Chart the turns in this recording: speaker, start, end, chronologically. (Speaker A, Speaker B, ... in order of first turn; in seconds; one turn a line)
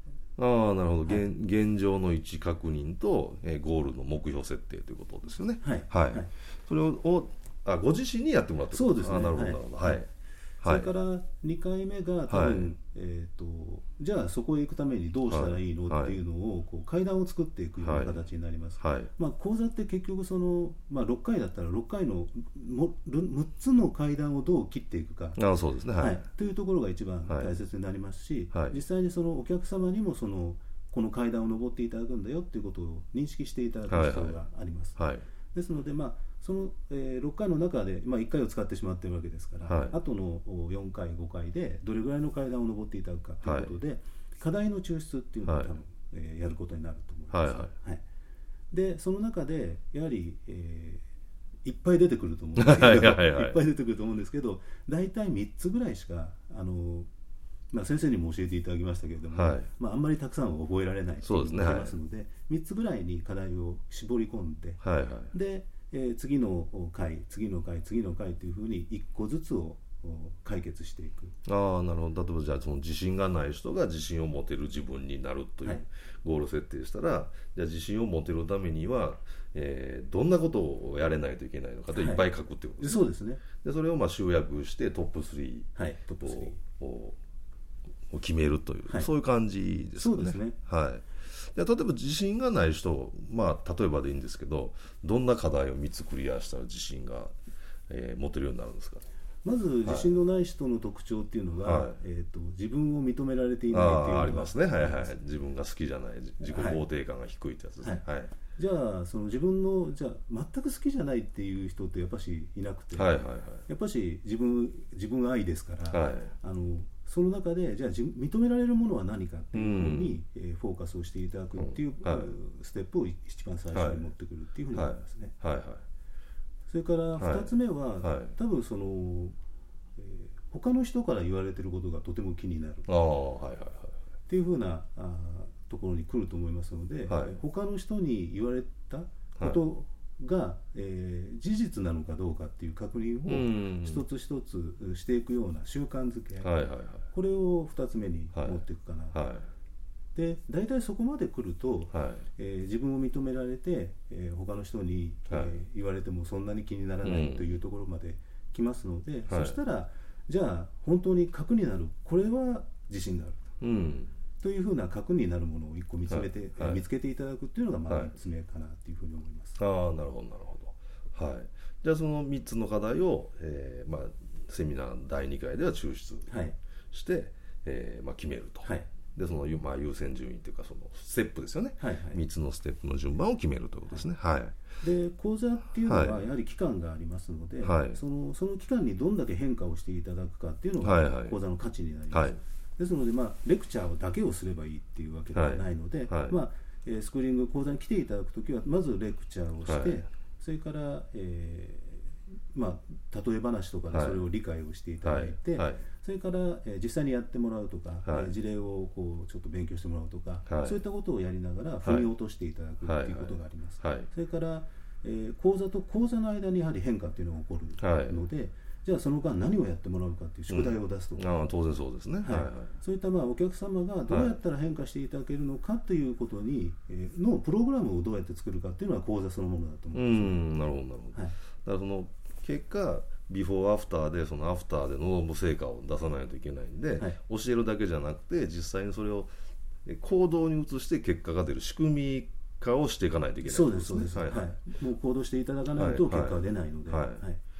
Speaker A: 0.4-10.1
Speaker B: 5.6-6.3
Speaker B: 8.7-10.0
Speaker A: 10.6-10.9
Speaker B: 10.6-25.4
Speaker A: 12.3-12.7
Speaker A: 15.3-16.2
Speaker A: 17.8-18.3
Speaker A: 18.8-19.1
Speaker A: 25.4-26.2
Speaker B: 26.0-35.0
Speaker A: 27.3-27.6
Speaker A: 28.5-28.8
Speaker A: 33.9-34.4
Speaker A: 35.0-35.2
Speaker B: 35.5-48.0
Speaker A: 39.6-40.0
Speaker A: 43.4-43.7
Speaker A: 45.4-45.7
Speaker A: 47.3-47.7
Speaker B: 48.7-51.0
Speaker B: 51.6-57.1
Speaker A: 52.6-53.6
Speaker B: 57.7-64.8
Speaker A: 59.3-59.7
Speaker A: 61.2-62.0
Speaker A: 64.8-65.3
Speaker B: 65.3-71.3
Speaker A: 71.4-87.2
Speaker B: 81.9-82.2
Speaker B: 82.8-83.4
Speaker B: 85.7-86.6
Speaker A: 88.1-97.3
Speaker B: 89.9-90.6
Speaker A: 97.9-99.0
Speaker B: 99.4-105.1
Speaker A: 101.6-102.0
Speaker A: 103.7-108.3
Speaker B: 106.4-106.8
Speaker B: 107.8-125.3
Speaker A: 112.9-113.6
Speaker A: 115.9-116.3
Speaker A: 119.5-120.2
Speaker A: 121.6-122.3
Speaker A: 123.7-124.1
Speaker A: 124.7-125.8
Speaker B: 126.7-129.3
Speaker A: 127.2-128.3
Speaker B: 130.0-132.9
Speaker A: 132.8-133.9
Speaker B: 134.3-146.5
Speaker A: 137.1-137.3
Speaker A: 143.2-144.0
Speaker A: 146.4-147.1
Speaker B: 147.1-149.2
Speaker A: 148.3-149.5
Speaker B: 150.1-163.4
Speaker A: 151.9-152.2
Speaker A: 155.3-155.6
Speaker A: 157.0-157.5
Speaker A: 159.3-159.6
Speaker A: 163.6-164.1
Speaker B: 164.4-169.6
Speaker A: 166.1-166.8
Speaker A: 169.6-176.3
Speaker B: 176.3-176.6
Speaker A: 176.9-184.6
Speaker B: 181.8-182.2
Speaker B: 184.8-221.3
Speaker A: 185.8-186.3
Speaker A: 187.6-188.0
Speaker A: 190.8-191.4
Speaker A: 192.1-192.4
Speaker A: 195.3-196.4
Speaker A: 199.7-200.0
Speaker A: 203.9-204.2
Speaker A: 205.0-205.8
Speaker A: 208.1-208.3
Speaker A: 210.5-210.8
Speaker A: 211.8-212.1
Speaker A: 212.8-214.1
Speaker A: 217.8-218.2
Speaker A: 220.5-222.8
Speaker B: 222.2-230.4
Speaker A: 224.1-224.4
Speaker A: 229.9-239.3
Speaker A: 239.8-244.5
Speaker B: 243.4-247.4
Speaker A: 245.7-247.2